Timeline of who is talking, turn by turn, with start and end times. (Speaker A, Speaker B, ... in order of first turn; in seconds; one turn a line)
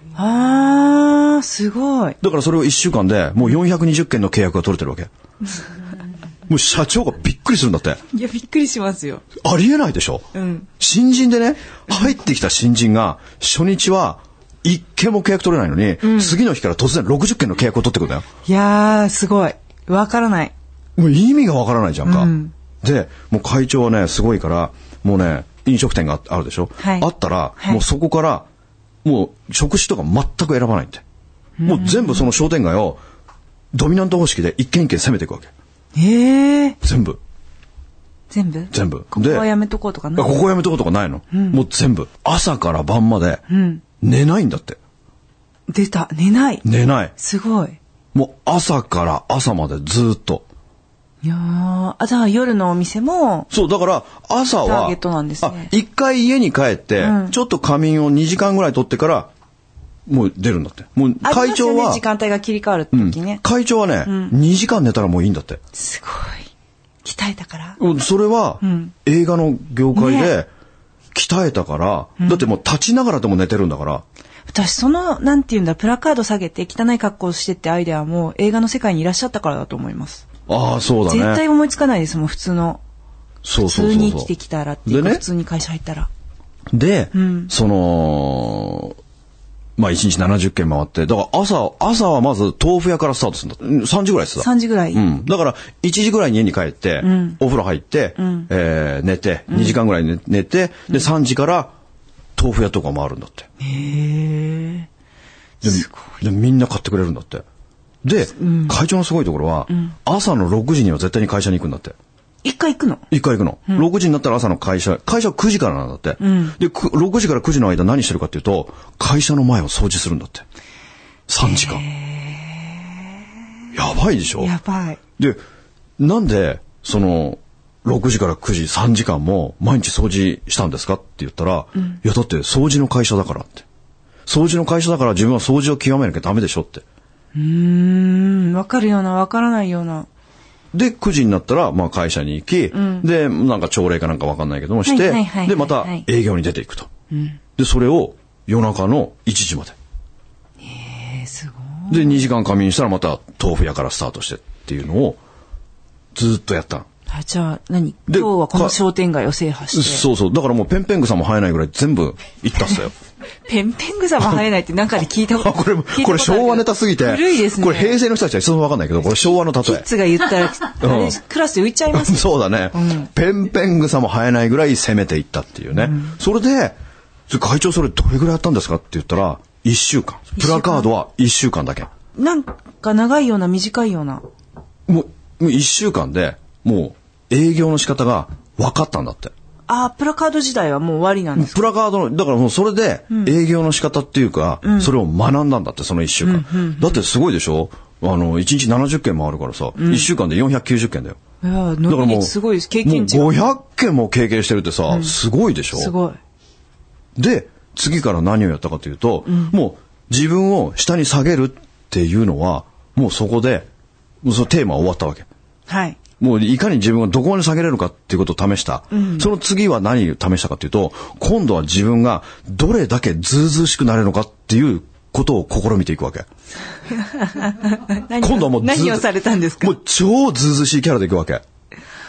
Speaker A: 0.1-2.2
Speaker B: 2.2-5.1
Speaker B: 6.5-8.0
Speaker A: 8.1-9.2
Speaker B: 9.4-10.3
Speaker A: 10.3-10.7
Speaker B: 10.8-18.2
Speaker A: 16.0-16.4
Speaker A: 18.4-20.5
Speaker B: 21.0-28.4
Speaker A: 22.0-22.5
Speaker A: 26.8-27.1
Speaker B: 29.0-31.0
Speaker A: 31.6-32.3
Speaker B: 31.6-33.0
Speaker B: 33.7-35.5
Speaker A: 35.9-36.8
Speaker B: 36.8-37.2
Speaker A: 38.3-40.4
Speaker B: 38.7-39.5
Speaker B: 40.1-43.4
Speaker A: 41.3-41.6
Speaker A: 43.5-43.8
Speaker B: 44.0-44.8
Speaker A: 45.7-46.6
Speaker B: 46.6-47.1
Speaker A: 47.2-47.8
Speaker B: 48.1-50.4
Speaker A: 51.2-53.5
Speaker B: 53.5-59.3
Speaker A: 54.6-55.7
Speaker A: 57.0-57.4
Speaker B: 60.0-62.0
Speaker A: 61.2-63.4
Speaker B: 62.9-65.6
Speaker A: 64.0-64.3
Speaker A: 65.7-66.5
Speaker A: 67.0-67.8
Speaker B: 67.8-70.5
Speaker A: 68.6-68.9
Speaker A: 69.9-70.3
Speaker B: 71.1-74.0
Speaker A: 74.5-80.3
Speaker B: 80.5-81.4
Speaker A: 81.1-82.8
Speaker B: 83.4-84.3
Speaker A: 83.6-86.1
Speaker B: 84.9-85.2
Speaker B: 86.7-89.0
Speaker A: 87.1-87.5
Speaker B: 89.8-101.7
Speaker A: 94.4-95.0
Speaker A: 97.0-97.4
Speaker A: 98.2-98.5
Speaker A: 99.5-99.8
Speaker B: 102.3-103.5
Speaker A: 103.6-104.9
Speaker A: 105.6-106.2
Speaker B: 105.6-107.4
Speaker B: 108.0-111.9
Speaker A: 108.4-108.8
Speaker A: 112.4-113.1
Speaker B: 113.1-120.4
Speaker A: 116.2-116.5
Speaker B: 121.3-121.8
Speaker A: 121.4-123.2
Speaker B: 123.7-124.5
Speaker A: 124.4-125.0
Speaker B: 126.0-133.6
Speaker B: 134.2-136.8
Speaker A: 137.3-140.1
Speaker B: 140.7-146.9
Speaker A: 142.7-143.0
Speaker A: 144.8-146.1
Speaker A: 147.1-147.4
Speaker B: 147.6-149.7
Speaker A: 150.6-152.2
Speaker B: 151.9-155.2
Speaker B: 156.1-156.8
Speaker A: 157.1-160.1
Speaker B: 158.1-158.8
Speaker B: 159.7-162.9
Speaker A: 163.5-168.0
Speaker B: 165.3-169.9
Speaker A: 169.6-173.1
Speaker B: 170.7-171.2
Speaker B: 171.9-176.8
Speaker A: 175.7-176.2
Speaker B: 177.3-181.9
Speaker A: 180.4-180.9
Speaker A: 182.2-184.2
Speaker B: 184.9-189.3
Speaker A: 189.7-191.7
Speaker B: 191.3-201.2
Speaker A: 194.6-194.9
Speaker A: 196.2-197.0
Speaker A: 199.7-200.1
Speaker A: 201.4-203.4
Speaker B: 201.9-205.9
Speaker A: 205.7-206.2
Speaker B: 207.2-213.7
Speaker A: 209.2-209.5
Speaker B: 214.2-215.2
Speaker A: 215.7-216.0
Speaker B: 216.2-226.3
Speaker A: 218.9-219.3
Speaker A: 227.0-229.7
Speaker B: 228.2-229.0
Speaker B: 229.6-231.4